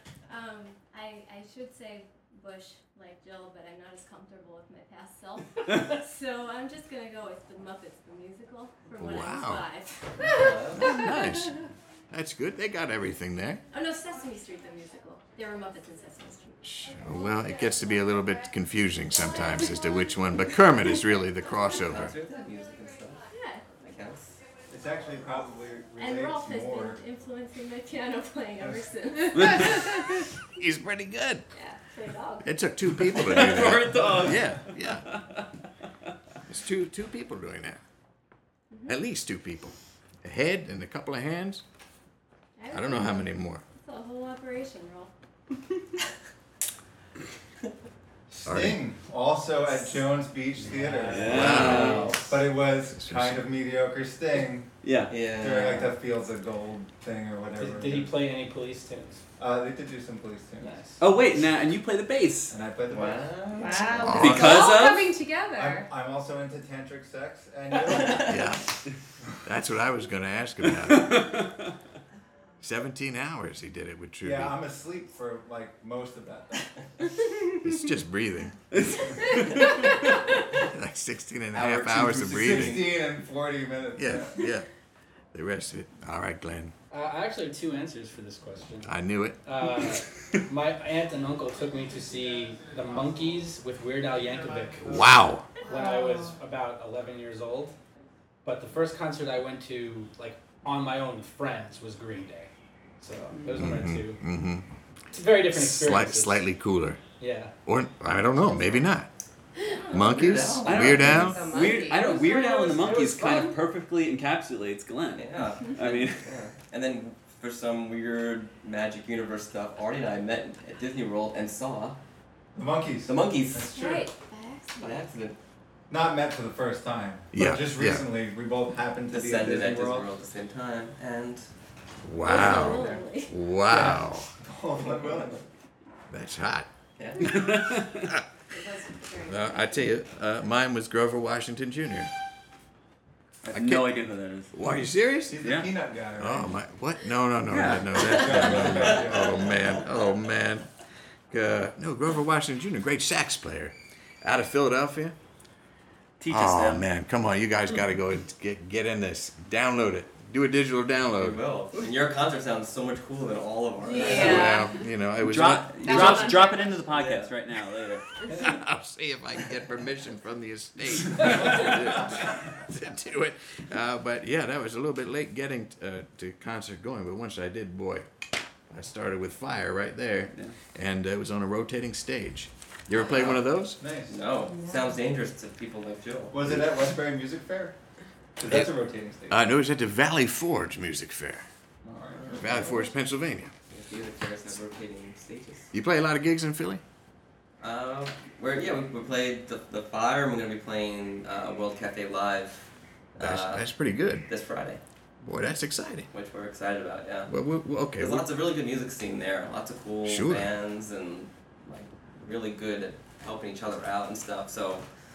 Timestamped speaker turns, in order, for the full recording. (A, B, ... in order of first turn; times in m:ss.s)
0:00.3-0:10.5 A
0:08.9-0:09.6 B
0:10.3-0:11.1 C
0:10.8-0:13.6 B
0:13.7-0:18.0 A
0:16.6-0:22.1 B
0:19.4-0:19.8 A
0:21.8-0:23.2 C
0:23.2-0:23.7 A
0:23.8-0:24.4 C
0:24.7-0:27.0 D
0:26.0-0:30.3 A
0:28.6-0:28.9 D
0:30.5-0:31.5 B
0:31.5-0:32.6 A
0:32.4-0:35.1 B
0:33.0-0:35.4 E
0:36.5-0:37.8 B
0:38.7-0:39.0 A
0:38.9-0:41.6 B
0:42.6-0:45.1 A
0:42.7-0:43.6 B
0:48.3-0:54.7 D
0:48.4-0:48.8 B
0:50.6-0:52.2 F
0:51.1-0:52.1 E
0:51.3-0:52.0 B
0:51.8-0:52.2 C
0:52.9-0:53.4 B
0:54.8-0:55.1 E
0:55.1-0:56.0 C
0:55.4-0:58.1 D
0:57.6-0:59.2 F
0:59.4-1:00.8 D
1:00.6-1:01.0 F
1:01.0-1:02.6 E
1:02.5-1:03.6 D
1:02.9-1:04.6 C
1:03.6-1:05.9 G
1:04.0-1:04.6 B
1:04.1-1:05.2 E
1:05.6-1:08.4 D
1:08.2-1:08.7 B
1:09.4-1:11.4 B
1:10.8-1:11.7 E
1:12.6-1:14.6 B
1:14.2-1:16.8 D
1:17.6-1:18.8 B
1:18.7-1:19.9 E
1:20.6-1:23.0 B
1:21.6-1:22.9 C
1:22.0-1:24.4 D
1:24.0-1:24.7 B
1:25.3-1:26.7 B
1:26.9-1:37.8 F
1:28.8-1:29.4 B
1:31.9-1:33.5 D
1:34.2-1:35.2 D
1:34.8-1:35.5 B
1:35.6-1:36.3 G
1:38.4-1:44.2 F
1:43.5-1:44.6 B
1:45.1-1:46.5 F
1:45.5-1:47.0 B
1:47.2-1:47.5 F
1:47.6-1:49.1 B
1:49.7-1:50.1 A
1:49.9-1:51.4 B
1:50.0-1:51.3 C
1:50.6-1:56.3 E
1:51.0-1:52.8 G
1:52.0-1:53.6 F
1:55.2-2:02.0 C
2:02.6-2:04.0 D
2:03.0-2:04.0 C
2:03.7-2:05.0 A
2:04.8-2:05.4 C
2:05.9-2:10.1 D
2:07.3-2:08.1 B
2:09.1-2:11.5 C
2:12.0-2:14.3 B
2:12.2-2:13.3 A
2:12.7-2:13.0 C
2:13.7-2:15.4 D
2:16.1-2:16.7 B
2:17.0-2:17.6 C
2:17.2-2:18.1 E
2:18.5-2:19.9 A
2:19.3-2:22.1 B
2:23.4-2:24.5 E
2:23.5-2:23.9 B
2:24.5-2:25.5 B
2:25.3-2:26.5 D
2:25.4-2:25.7 E
2:26.2-2:30.7 B
2:27.5-2:28.3 E
2:28.0-2:29.5 D
2:31.3-2:35.2 B
2:36.2-2:36.9 E
2:36.3-2:41.4 B
2:41.2-2:44.6 C
2:43.9-2:44.8 G
2:44.1-2:46.4 B
2:45.2-2:48.1 E
2:45.8-2:46.8 G
2:46.8-2:47.3 C
2:48.3-2:58.1 B
2:58.7-3:03.8 B
3:03.0-3:03.4 C
3:03.8-3:04.2 D
3:04.1-3:06.4 C
3:04.5-3:04.8 G
3:06.3-3:07.7 D
3:08.4-3:09.4 D
3:09.3-3:11.5 B
3:11.8-3:12.6 D
3:12.1-3:12.7 C
3:12.4-3:13.5 B
3:13.7-3:15.7 C
3:15.7-3:16.8 B
3:17.6-3:23.7 C
3:23.2-3:24.3 B
3:24.3-3:24.8 C
3:25.2-3:26.1 B
3:26.1-3:27.3 C
3:27.3-3:28.3 B
3:28.0-3:34.9 C
3:30.0-3:30.5 B